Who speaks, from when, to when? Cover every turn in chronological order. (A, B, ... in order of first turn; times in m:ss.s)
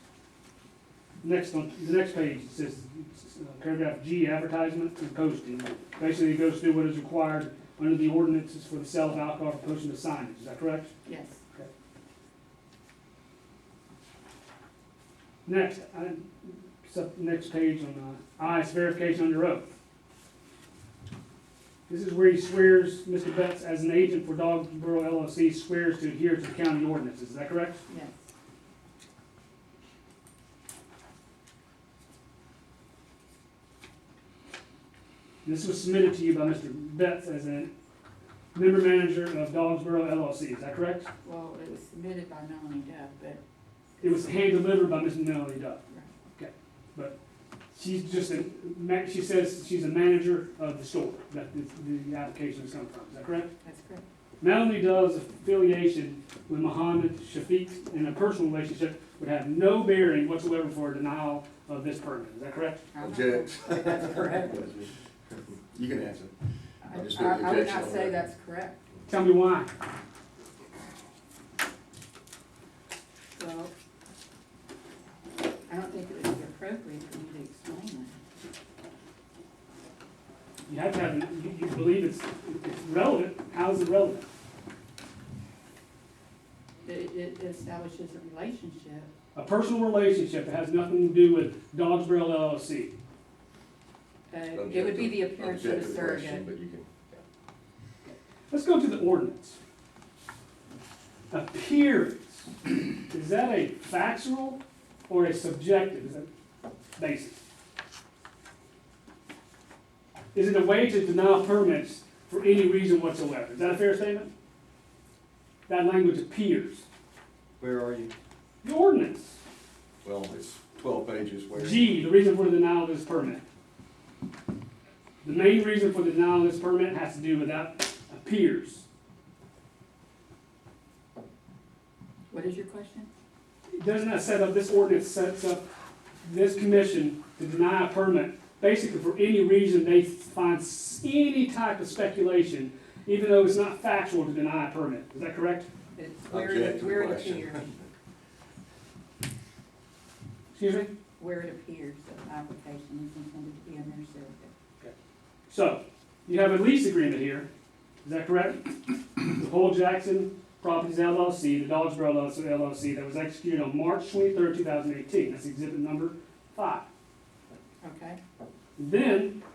0:01.2-0:10.9 A
0:11.0-0:11.4 B
0:15.4-0:19.7 A
0:21.9-0:27.8 A
0:27.9-0:28.2 B
0:35.4-0:37.7 A
0:38.5-0:41.1 A
0:41.2-0:43.4 B
0:44.0-0:44.4 B
0:44.0-0:45.8 A
0:46.4-0:47.2 A
0:47.7-0:53.5 A
0:53.6-0:54.0 B
0:54.4-1:02.9 A
1:02.9-1:04.6 B
1:03.0-1:06.3 C
1:06.8-1:08.8 B
1:06.9-1:08.2 C
1:09.1-1:09.7 A
1:13.4-1:13.7 B
1:15.7-1:18.2 B
1:20.7-1:24.3 A
1:26.8-1:29.1 B
1:29.4-1:32.9 A
1:34.3-1:36.5 B
1:34.5-1:37.2 C
1:38.0-1:39.6 A
1:41.3-1:46.3 A
1:47.0-1:47.4 A
1:50.3-1:54.3 A
1:55.7-1:56.9 A
1:57.6-1:58.1 C
1:58.6-1:59.4 A
2:00.0-2:02.0 C
2:01.6-2:03.4 A
2:05.2-2:08.9 A
2:12.3-2:13.1 B
2:13.7-2:15.7 A
2:16.2-2:25.7 A
2:26.0-2:27.7 B
2:26.3-2:27.7 C
2:30.5-2:30.9 A
2:31.2-2:34.5 B
2:35.5-2:37.5 A
2:38.0-2:46.9 A
2:47.8-2:48.2 B
2:48.8-2:49.4 A